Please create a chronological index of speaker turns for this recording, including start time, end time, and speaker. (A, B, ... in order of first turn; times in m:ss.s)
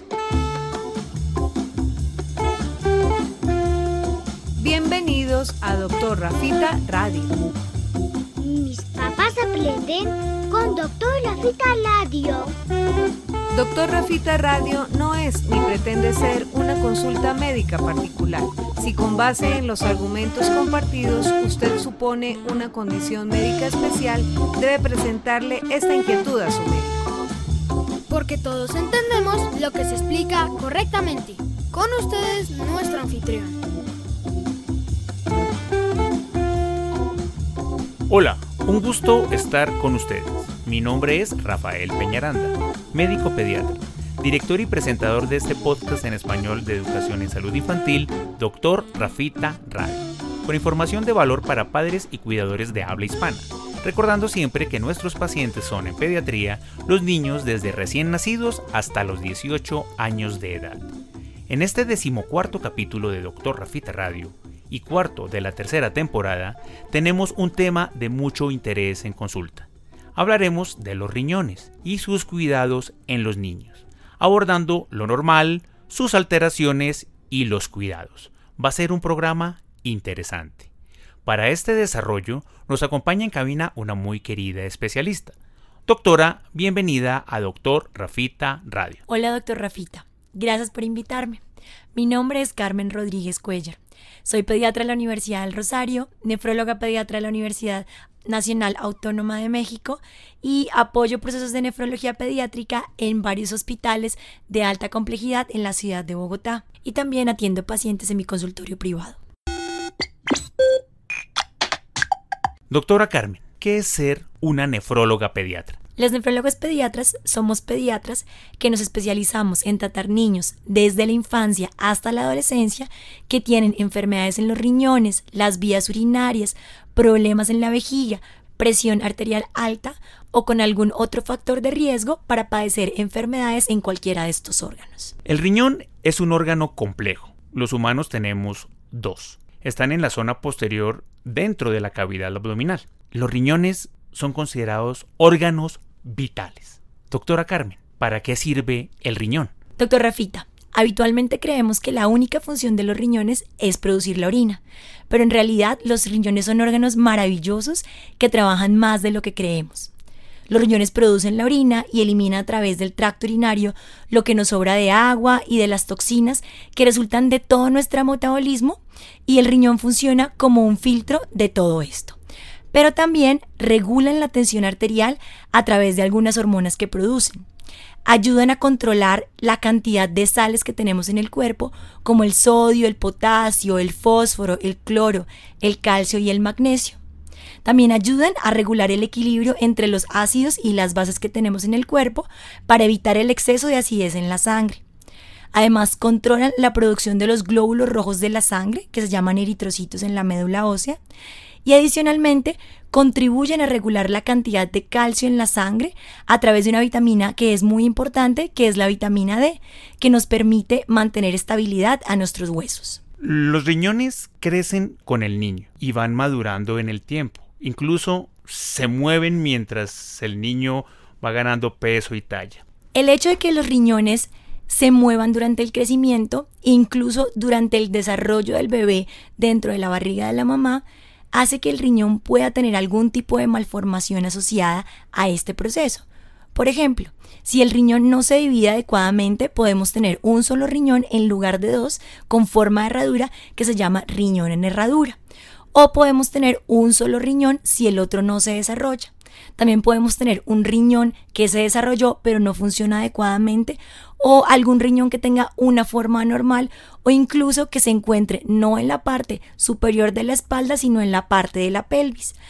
0:04.6-0:07.4 A
0:08.4-0:12.5 B
0:13.5-0:27.1 A
0:28.1-0:33.6 C
0:38.1-1:00.9 D
1:01.5-1:20.7 D
1:21.2-1:25.3 D
1:25.8-1:29.0 D
1:29.1-1:31.4 E
1:31.9-1:49.2 E
1:52.7-1:55.8 D
1:56.0-2:15.1 E
2:15.2-2:29.5 D
2:29.8-2:39.9 E
2:40.5-2:52.2 E
2:52.7-2:57.4 E
2:58.0-3:07.0 E
3:07.6-3:14.8 E
3:15.5-3:21.0 E
3:21.6-3:33.0 E
3:33.2-3:42.6 D
3:42.9-3:56.0 E
3:56.5-4:05.2 E
4:05.7-4:22.3 E